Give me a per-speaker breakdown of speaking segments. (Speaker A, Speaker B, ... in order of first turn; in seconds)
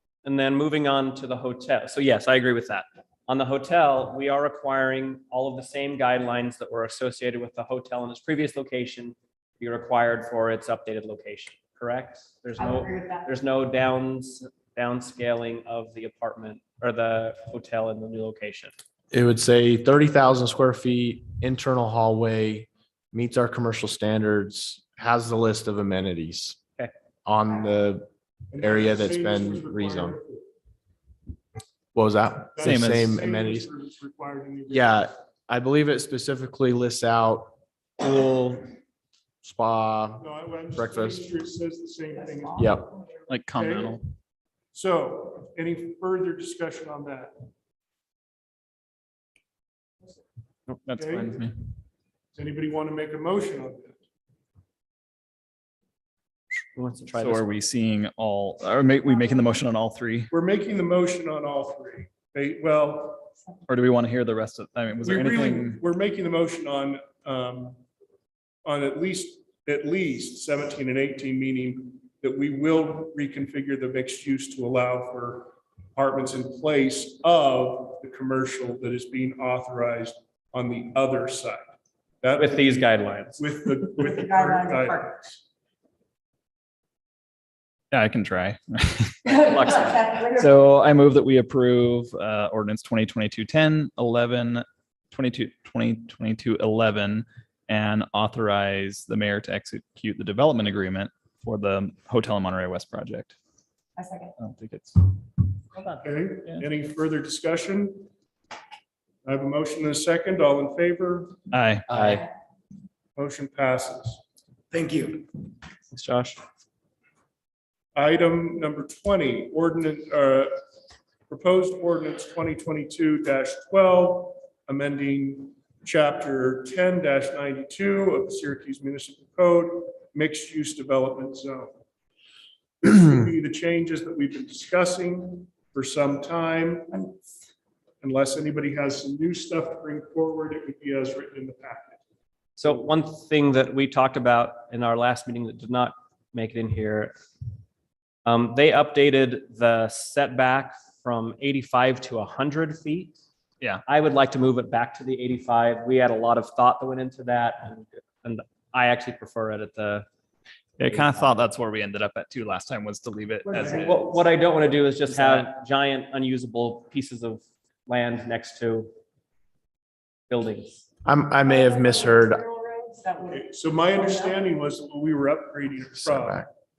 Speaker A: 0.2-18.8, 56.7-57.6, 82.4-83.7, 89.4-90.0, 111.9-112.2, 114.8-115.2, 115.9-116.4, 142.6-147.1, 148.2-153.2, 153.8-160.1, 160.9-161.4, 163.6-168.9, 170.3-170.8
Speaker B: 12.6-13.3, 42.1-42.7, 83.9-85.2, 89.2-90.5, 104.0-104.3, 136.9-137.2, 163.4-164.2, 171.5-174.5
Speaker C: 19.1-26.6, 27.3-30.2, 31.9-33.7, 34.7-38.7, 39.4-41.3, 42.6-42.9, 171.1-172.4, 175.9-176.5
Speaker D: 28.5-30.5, 32.5-35.0, 40.2-42.9, 43.5-44.0, 44.7-47.5, 50.9-51.4, 52.3-54.0, 60.3-63.3, 65.0-67.8, 68.7-85.4, 106.0-108.1, 109.2-111.4, 113.2-114.2, 118.0-120.6, 121.3-131.8, 132.8-136.9, 138.0-142.0, 173.3-176.4
Speaker E: 32.6-33.2, 43.3-44.0, 50.9-51.6, 57.2-60.3, 63.7-65.8, 87.9-89.3, 90.3-103.4, 104.4-105.2, 111.5-112.2, 160.8-164.0, 165.1-165.5